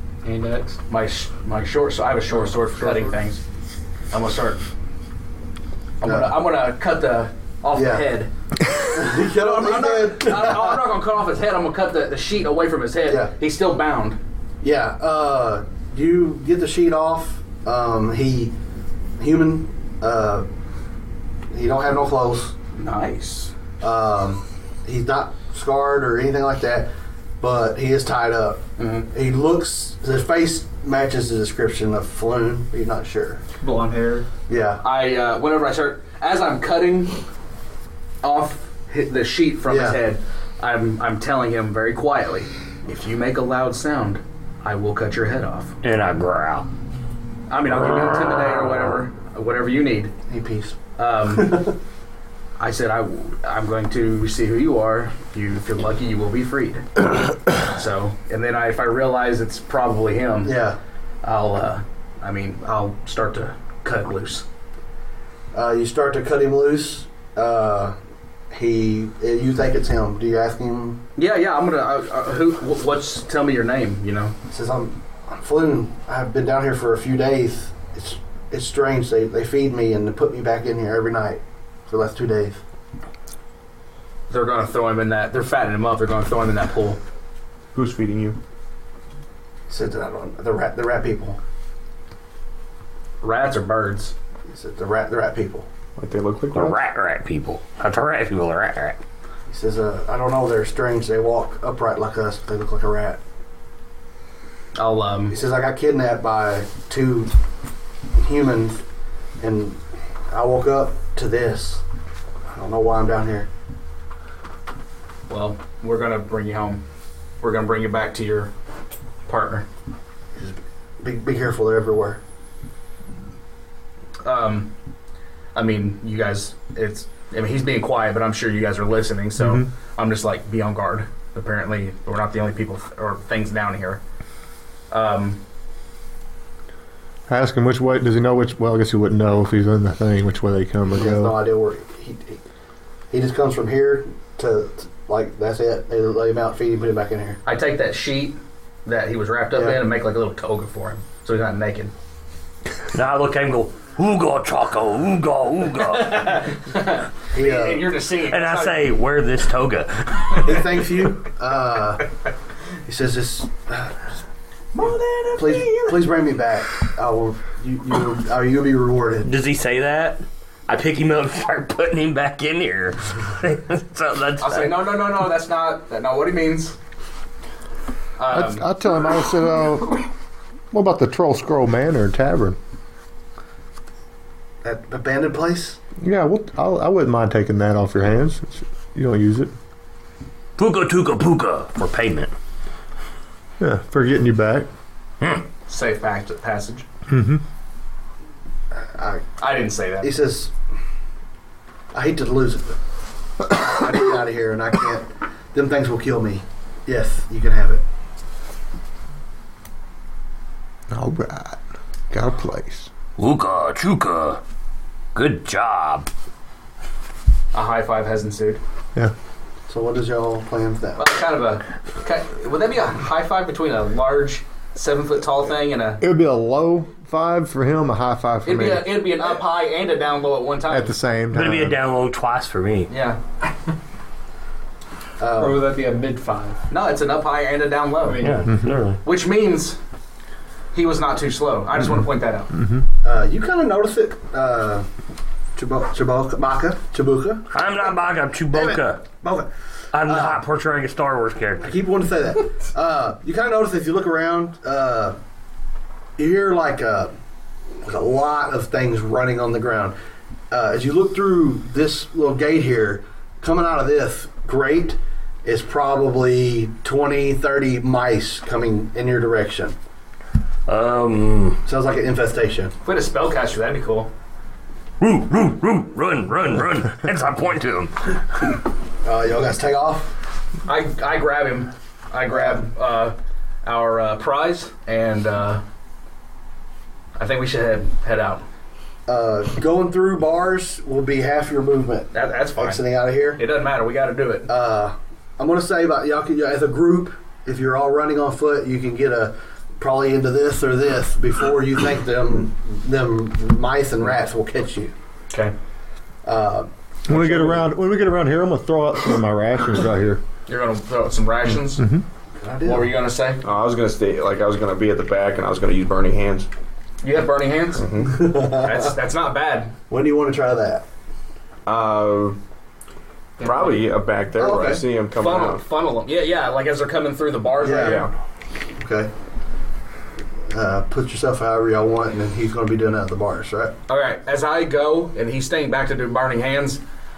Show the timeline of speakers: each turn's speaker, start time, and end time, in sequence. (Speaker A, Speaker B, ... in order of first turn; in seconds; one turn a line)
Speaker A: 0.2-0.8
Speaker B: 0.9-3.4
Speaker B: 4.1-4.6
Speaker B: 6.0-8.3
Speaker C: 6.0-6.4
Speaker C: 7.7-8.1
Speaker C: 8.9-10.8
Speaker B: 8.9-14.2
Speaker C: 14.6-18.5
Speaker C: 19.2-20.5
Speaker C: 21.5-22.6
Speaker B: 22.7-23.5
Speaker C: 23.8-33.4
Speaker B: 28.8-29.1
Speaker A: 33.6-34.3
Speaker C: 34.5-34.8
Speaker B: 34.8-37.2
Speaker B: 38.2-45.8
Speaker C: 39.7-40.0
Speaker D: 45.8-46.7
Speaker B: 47.5-50.1
Speaker C: 50.3-50.8
Speaker B: 51.0-51.8
Speaker C: 51.3-51.7
Speaker B: 52.6-60.5
Speaker C: 60.5-60.8
Speaker B: 61.2-64.5
Speaker C: 65.5-68.0
Speaker C: 68.5-71.0
Speaker B: 71.2-74.3
Speaker C: 74.5-82.6
Speaker B: 84.3-87.0
Speaker E: 87.7-88.4
Speaker C: 89.7-91.4
Speaker B: 93.2-94.1
Speaker C: 94.5-95.7
Speaker E: 96.0-96.8
Speaker D: 96.5-99.0
Speaker C: 99.5-103.2
Speaker B: 104.8-105.3
Speaker C: 105.3-107.3
Speaker C: 108.2-108.8
Speaker C: 109.4-111.8
Speaker C: 112.5-113.5
Speaker B: 115.3-116.8
Speaker B: 117.4-118.5
Speaker B: 119.3-119.7
Speaker C: 120.4-122.2
Speaker B: 124.2-124.7
Speaker B: 125.5-134.0
Speaker B: 134.9-135.4
Speaker F: 137.3-141.4
Speaker C: 141.0-142.4
Speaker C: 143.1-147.4
Speaker B: 147.5-151.9
Speaker C: 149.5-149.8
Speaker D: 152.9-156.2
Speaker B: 155.8-158.8
Speaker C: 157.3-157.9
Speaker D: 158.3-160.5
Speaker C: 160.4-162.1
Speaker C: 162.9-164.1
Speaker B: 164.8-166.1
Speaker C: 165.4-169.3
Speaker D: 169.2-174.8
Speaker B: 174.4-176.8
Speaker B: 178.2-178.7
Speaker F: 178.3-180.1
Speaker F: 180.7-182.6
Speaker C: 184.6-185.8
Speaker F: 186.0-189.5
Speaker D: 190.6-192.3
Speaker F: 193.6-194.7
Speaker B: 195.7-196.8
Speaker F: 197.1-197.4
Speaker C: 198.8-199.3
Speaker B: 199.4-200.2
Speaker C: 200.0-200.5
Speaker C: 201.9-202.8
Speaker C: 203.4-207.8
Speaker F: 210.9-212.9
Speaker D: 213.2-214.4
Speaker D: 215.2-216.1
Speaker B: 217.5-218.6
Speaker C: 219.7-221.1
Speaker B: 221.0-226.0
Speaker F: 226.0-229.1
Speaker B: 228.5-230.9
Speaker F: 230.7-231.8
Speaker D: 231.3-232.9
Speaker B: 232.9-233.2
Speaker C: 235.2-235.7
Speaker A: 235.4-236.6
Speaker B: 236.7-238.3
Speaker A: 238.0-238.5
Speaker D: 238.2-239.0
Speaker B: 239.0-239.8
Speaker B: 240.7-242.5
Speaker C: 243.0-244.9
Speaker C: 245.6-247.5
Speaker D: 247.5-249.1
Speaker C: 248.5-249.5
Speaker D: 249.9-251.7
Speaker C: 250.1-250.4
Speaker C: 251.6-255.2
Speaker C: 256.2-257.1
Speaker C: 257.8-259.9
Speaker C: 260.5-269.8
Speaker D: 270.7-271.6
Speaker C: 271.7-272.7
Speaker B: 272.8-274.1
Speaker D: 275.0-278.2
Speaker C: 279.1-280.2
Speaker B: 280.7-285.6
Speaker C: 282.3-282.6
Speaker B: 287.2-288.4
Speaker C: 289.1-293.4
Speaker B: 292.1-292.8
Speaker B: 293.4-294.5
Speaker C: 294.5-304.9
Speaker C: 306.2-307.7
Speaker F: 307.1-310.2
Speaker B: 310.5-311.8
Speaker F: 311.8-312.0
Speaker C: 312.4-312.9
Speaker B: 312.6-313.4
Speaker E: 313.4-316.5
Speaker B: 317.0-317.9
Speaker E: 317.8-318.3
Speaker C: 318.1-318.9
Speaker B: 318.4-319.7
Speaker C: 319.9-320.9
Speaker E: 321.7-322.4
Speaker A: 323.4-323.9
Speaker E: 323.4-325.6
Speaker C: 324.4-324.9
Speaker B: 325.2-328.1
Speaker C: 327.6-328.1
Speaker C: 328.8-329.1
Speaker C: 330.5-333.7
Speaker B: 333.9-336.8